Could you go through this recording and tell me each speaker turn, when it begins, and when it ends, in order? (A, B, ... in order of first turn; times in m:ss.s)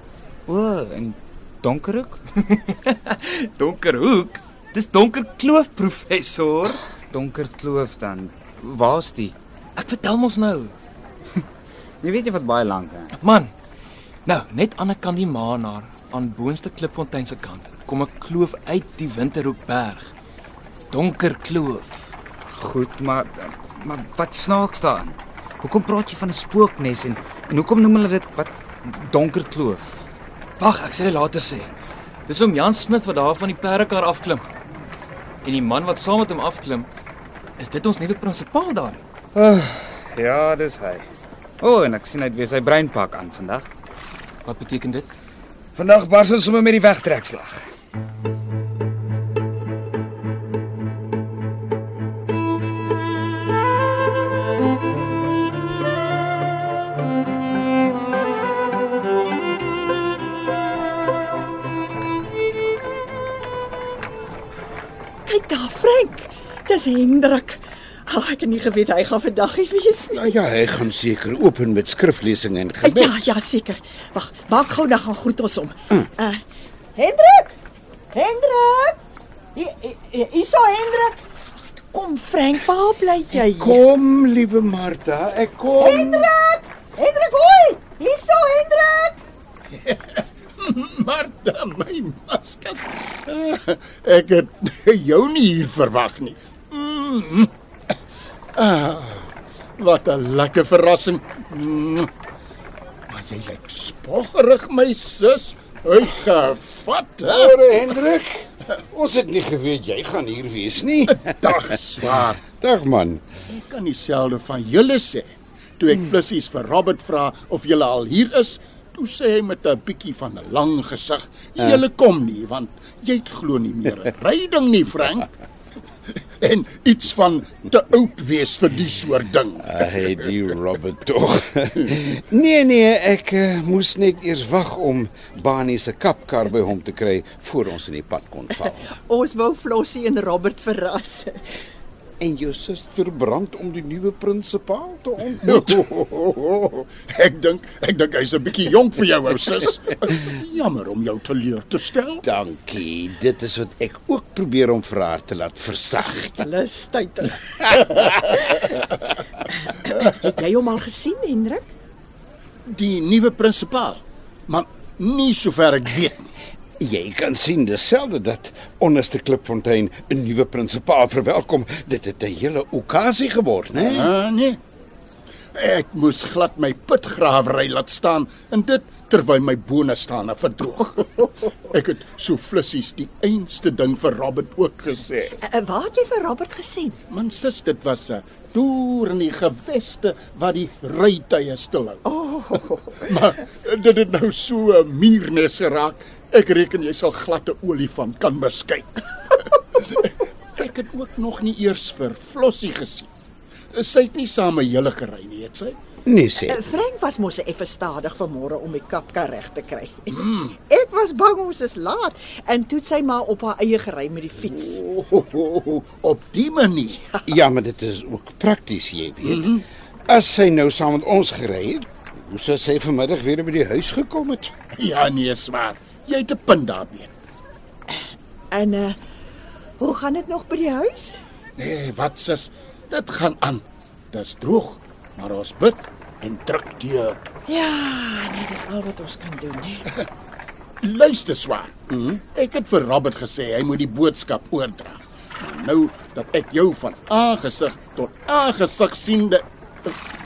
0:00.5-0:02.2 A
0:02.4-0:06.8 B
0:07.1-0:09.4 A
0:09.8-0:10.7 B
0:12.0-0:13.2 A
0:13.2-0:13.5 B
0:14.3-0:20.1 B
0:20.9-0:22.1 B
0:22.5-0:30.1 A
0:30.6-0:31.7 B
0:32.3-0:34.4 B
0:35.4-0:36.9 B
0:37.6-0:39.0 B
0:39.4-0:41.1 A
0:41.6-0:43.7 A
0:44.4-0:45.1 B
0:45.8-0:47.6 A
1:05.3-1:10.3 C
1:10.1-1:13.4 D
1:12.8-1:16.4 C
1:17.0-1:17.5 C
1:18.1-1:19.0 C
1:19.6-1:23.8 C
1:23.3-1:26.3 D
1:25.8-1:29.2 C
1:29.7-1:37.5 E
1:38.6-1:42.1 E
1:43.1-1:47.6 E
1:47.3-1:51.3 D
1:51.1-1:52.4 E
1:52.4-1:53.2 D
1:53.5-2:05.3 E
2:06.4-2:10.0 E
2:09.6-2:18.8 D
2:18.6-2:21.4 C
2:22.2-2:25.8 D
2:25.4-2:32.2 E
2:32.2-2:36.4 D
2:36.4-2:38.8 C
2:39.5-2:41.7 C
2:42.7-2:46.3 E
2:46.8-2:54.1 D
2:53.8-2:54.6 E
2:55.5-3:05.4 E
3:05.4-3:07.0 C
3:07.1-3:12.0 E
3:12.0-3:13.0 C
3:13.0-3:23.1 E
3:23.7-3:25.8 E
3:26.1-3:26.6 D
3:26.4-3:34.8 C
3:34.8-3:37.1 E
3:37.3-3:39.6 D
3:39.2-3:39.6 E
3:40.1-3:44.5 D
3:44.7-3:47.1 E
3:47.9-3:49.0 C
3:49.8-3:51.2 C
3:51.6-3:57.3 E
3:57.5-3:59.9 C
4:00.8-4:10.0 E
4:01.9-4:02.2 D